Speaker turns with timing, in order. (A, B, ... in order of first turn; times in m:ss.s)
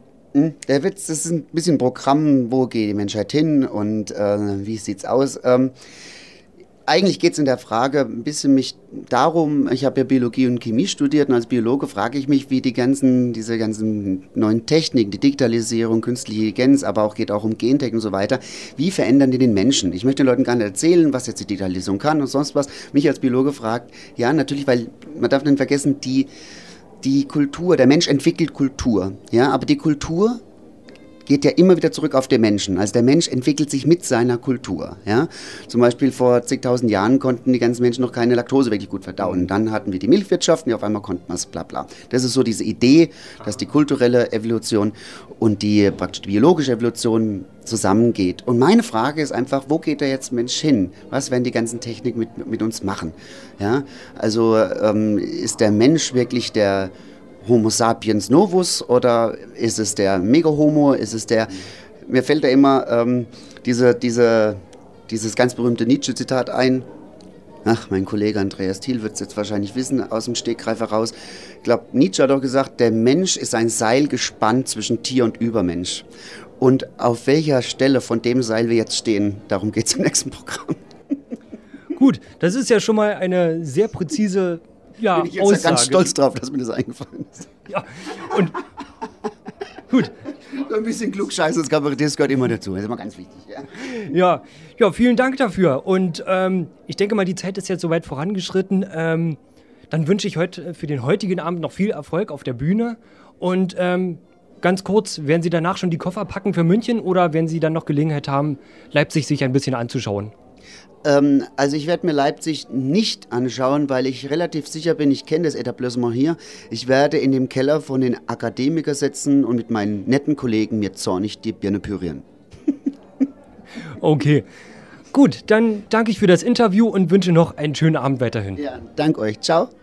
0:00.3-0:05.7 A
0:06.8-0:26.3 A
0:27.0-0:30.4 A
0:31.2-0:56.9 A
0:57.4-1:06.8 A
1:07.6-1:16.0 A
1:16.6-1:20.8 A
1:21.9-1:26.1 B
1:25.1-1:27.5 A
1:27.7-1:28.6 B
1:30.4-1:34.0 A
1:33.8-1:39.4 B
1:39.9-1:50.3 B
1:51.0-2:02.2 A
2:04.0-2:04.4 B
2:05.1-2:08.6 B
2:08.6-2:09.7 A